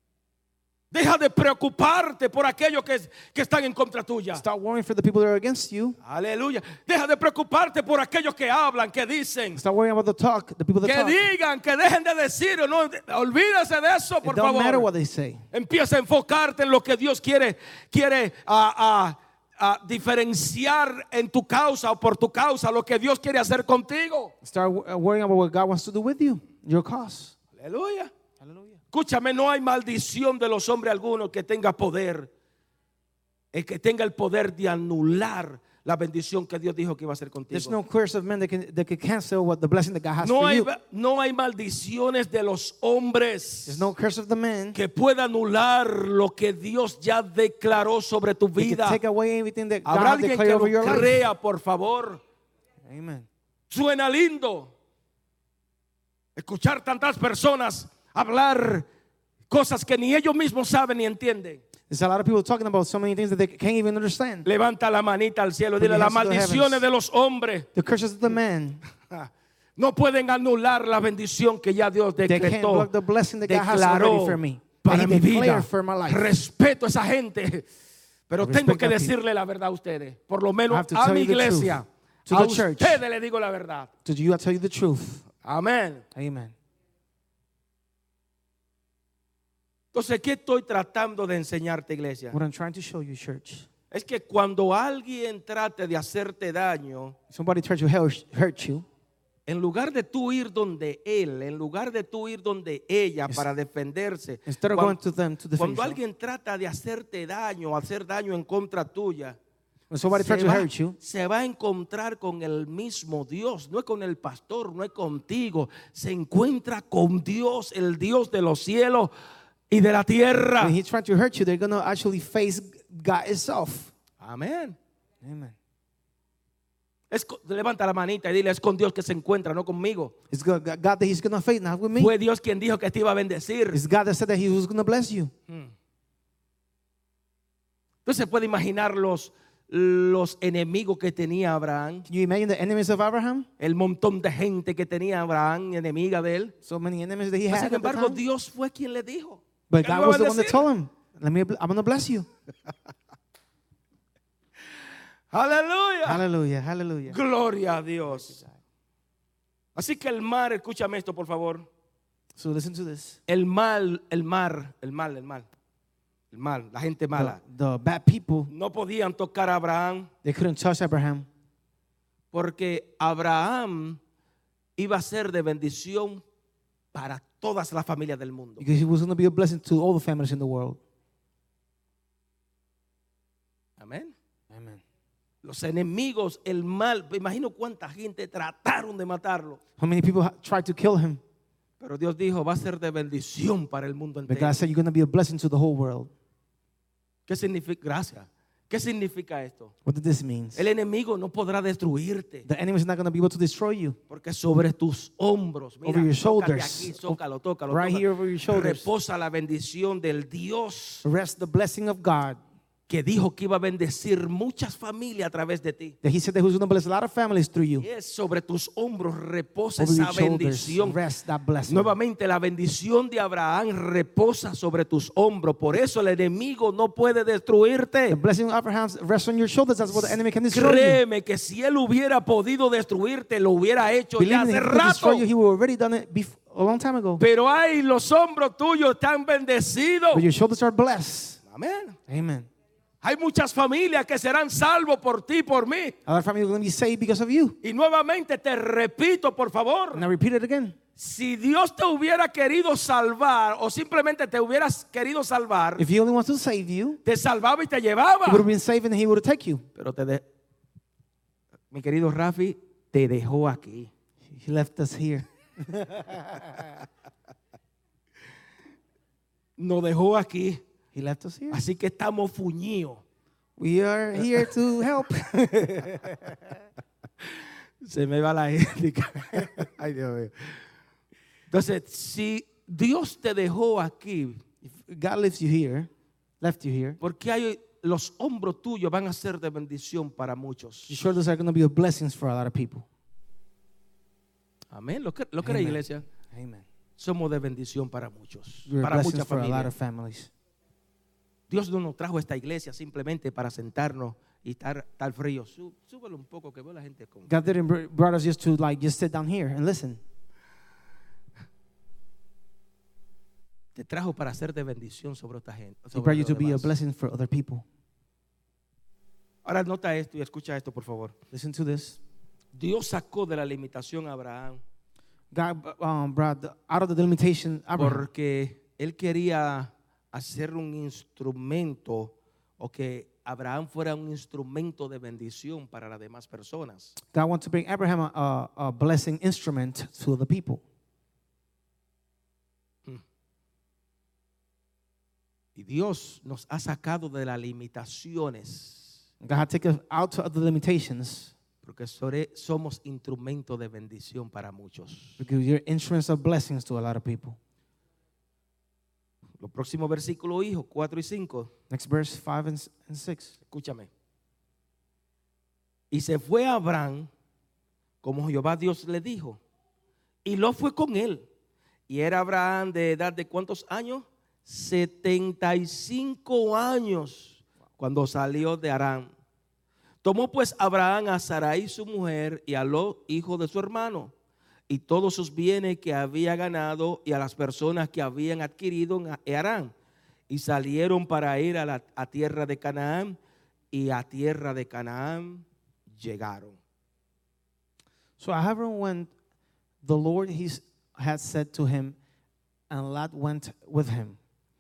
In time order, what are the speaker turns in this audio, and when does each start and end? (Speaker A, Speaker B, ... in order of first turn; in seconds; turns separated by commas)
Speaker A: 0.9-4.4, Speaker B: 4.3-6.0, Speaker A: 6.0-9.6, Speaker B: 9.6-11.2, Speaker A: 10.8-14.9, Speaker B: 14.2-15.4, Speaker A: 15.5-24.3, Speaker B: 24.4-27.3, Speaker A: 27.6-28.1, Speaker B: 28.4-28.8, Speaker A: 28.9-32.3, Speaker A: 33.5-37.8, Speaker B: 37.5-40.7, Speaker A: 40.2-43.9, Speaker B: 43.6-44.8, Speaker A: 44.7-49.0, Speaker B: 48.6-51.3, Speaker A: 49.8-52.2, Speaker B: 52.8-53.3, Speaker A: 53.7-54.7, Speaker A: 56.4-58.9, Speaker A: 59.5-61.6, Speaker B: 61.9-64.5, Speaker A: 64.4-67.7, Speaker B: 65.8-66.8, Speaker B: 67.7-68.8, Speaker A: 69.1-72.9, Speaker B: 72.3-76.3, Speaker A: 73.5-77.6, Speaker A: 78.3-83.9, Speaker B: 78.4-79.1, Speaker B: 80.7-83.0, Speaker B: 84.0-85.2, Speaker A: 85.4-86.0, Speaker B: 86.1-86.5, Speaker A: 89.9-92.4, Speaker B: 92.3-93.7, Speaker A: 93.9-97.2, Speaker B: 97.3-98.8, Speaker A: 99.5-105.0, Speaker B: 104.5-106.0, Speaker A: 105.6-109.4, Speaker B: 109.9-111.0, Speaker A: 110.1-119.1, Speaker A: 119.7-120.8, Speaker B: 120.6-123.9, Speaker A: 124.2-124.8, Speaker B: 125.2-125.5, Speaker A: 127.1-130.1, Speaker B: 130.3-132.1, Speaker A: 131.9-133.8, Speaker B: 133.7-135.3, Speaker A: 138.0-142.1, Speaker B: 142.1-143.5, Speaker A: 143.6-146.5, Speaker B: 146.6-148.2, Speaker A: 147.5-150.7, Speaker B: 149.7-152.3, Speaker A: 155.3-156.2, Speaker B: 156.0-157.2, Speaker A: 157.1-158.4, Speaker B: 158.1-158.5, Speaker A: 159.7-161.7, Speaker B: 162.4-163.2, Speaker A: 163.3-165.4, Speaker A: 166.3-167.4, Speaker B: 167.1-168.5, Speaker A: 168.5-170.1, Speaker B: 170.2-171.3, Speaker A: 172.3-174.0, Speaker A: 174.8-176.2, Speaker A: 176.9-178.7, Speaker B: 178.6-180.8, Speaker A: 183.8-184.1, Speaker B: 184.5-184.8, Speaker A: 185.4-189.6, Speaker B: 189.8-191.2, Speaker A: 191.8-194.6, Speaker B: 194.3-196.1, Speaker A: 197.3-199.7, Speaker B: 199.8-200.7, Speaker A: 200.6-202.4, Speaker B: 202.4-204.0, Speaker A: 204.1-211.0, Speaker B: 205.8-207.2, Speaker B: 207.7-208.9, Speaker B: 211.0-212.4, Speaker A: 212.9-215.9, Speaker B: 216.0-217.9, Speaker A: 217.8-221.0, Speaker B: 219.8-221.9, Speaker A: 221.7-228.2, Speaker B: 228.1-231.0, Speaker A: 229.9-235.3, Speaker B: 234.2-237.2, Speaker A: 237.2-240.2, Speaker B: 240.1-241.4, Speaker A: 241.5-242.0, Speaker B: 242.1-242.5, Speaker A: 243.0-245.9, Speaker B: 246.1-247.6, Speaker A: 247.6-250.1, Speaker B: 249.9-250.8, Speaker A: 251.0-255.9, Speaker B: 255.8-257.0, Speaker A: 257.0-258.5, Speaker B: 258.2-259.6, Speaker A: 259.8-260.2, Speaker A: 261.7-263.9, Speaker B: 264.3-266.7, Speaker A: 269.6-270.6, Speaker B: 270.9-271.6, Speaker A: 271.5-273.0, Speaker B: 273.6-276.5, Speaker A: 275.6-276.1, Speaker A: 277.8-280.6, Speaker A: 281.5-284.4, Speaker B: 284.6-285.9, Speaker B: 286.4-287.0, Speaker A: 287.0-291.0, Speaker B: 290.9-292.9, Speaker A: 294.7-296.0, Speaker B: 295.4-296.6, Speaker A: 297.0-299.7, Speaker B: 298.7-300.3, Speaker A: 301.5-307.5, Speaker B: 307.3-310.0, Speaker A: 313.7-316.7, Speaker B: 315.9-317.6, Speaker A: 319.4-321.1, Speaker B: 321.3-322.0, Speaker A: 322.5-324.6, Speaker B: 325.3-328.1, Speaker A: 327.8-336.9, Speaker B: 337.1-340.6, Speaker A: 345.6-348.9, Speaker B: 349.2-351.3, Speaker A: 351.6-355.2, Speaker B: 355.2-357.4, Speaker A: 359.4-361.5, Speaker B: 361.7-363.3, Speaker A: 363.5-363.9, Speaker A: 365.9-367.1, Speaker A: 368.0-369.4, Speaker A: 370.2-371.2, Speaker A: 371.9-379.1, Speaker A: 380.0-384.1, Speaker A: 384.7-389.7, Speaker A: 390.3-393.2, Speaker A: 393.7-396.6, Speaker B: 398.2-399.1, Speaker B: 399.8-402.0, Speaker B: 402.7-404.2